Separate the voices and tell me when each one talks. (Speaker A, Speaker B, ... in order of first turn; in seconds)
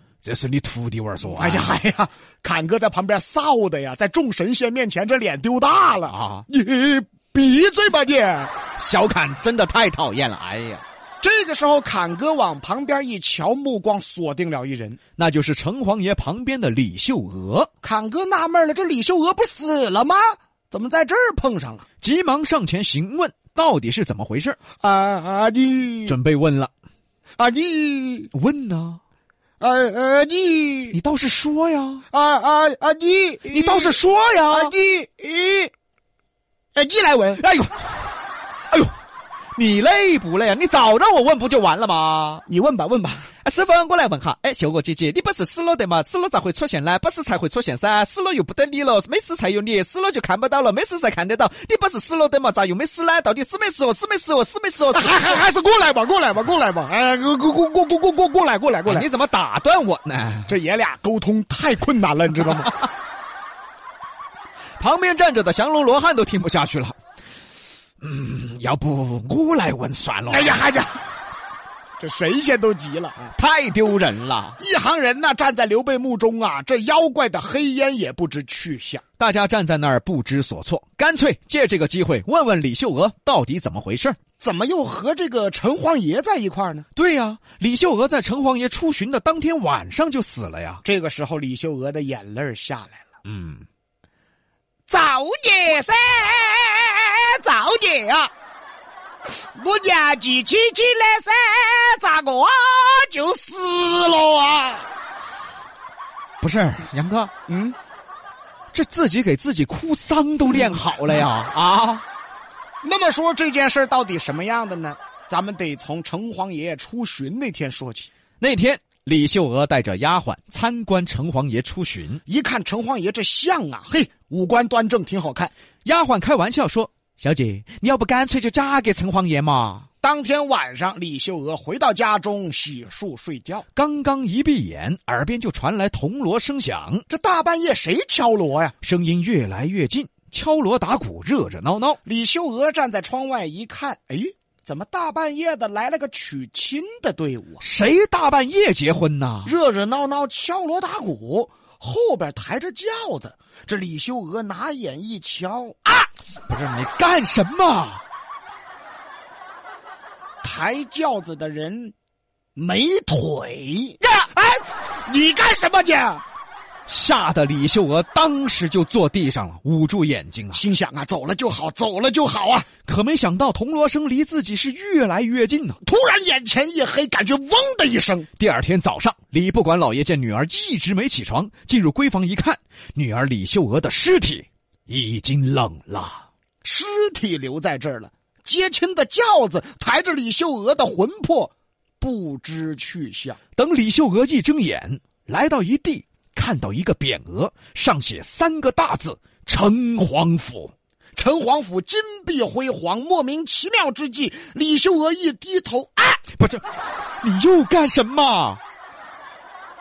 Speaker A: 0.2-1.7, 6.1-6.5, 8.8-10.8, 15.2-17.7, 22.0-24.6, 26.1-26.7, 28.3-29.0, 30.9-32.0, 33.5-34.7, 37.4-37.9, 39.5-42.4, 43.4-55.4, 58.9-60.5, 64.8-67.0, 68.0-70.6, 73.3-74.6, 79.2-84.2, 86.9-90.8, 93.2-93.6, 106.4-107.3, 108.7-112.0, 118.4-122.2, 125.8-129.9, 133.7-137.0, 138.8-142.0, 147.6-149.5, 156.5-158.0, 166.9-170.6, 172.8-175.8, 178.4-186.2, 193.6-200.7, 206.3-206.6, 207.2-208.6
Speaker B: 1.2-8.5, 11.2-15.0, 17.8-21.8, 24.8-26.2, 27.4-28.3, 29.6-31.0, 32.1-34.0, 34.5-35.7, 36.8-37.4, 42.5-43.3, 54.9-59.1, 60.5-62.8, 70.3-71.0, 72.0-73.3, 74.6-79.0, 84.4-86.8, 90.8-93.0, 94.9-98.3, 99.3-104.9, 107.5-107.8, 112.8-118.1, 122.3-125.5, 130.0-133.6, 137.1-138.7, 142.0-147.6, 149.4-156.1, 160.4-161.9, 162.6-166.2, 170.5-172.7, 175.8-178.3, 186.6-193.4, 201.2-206.2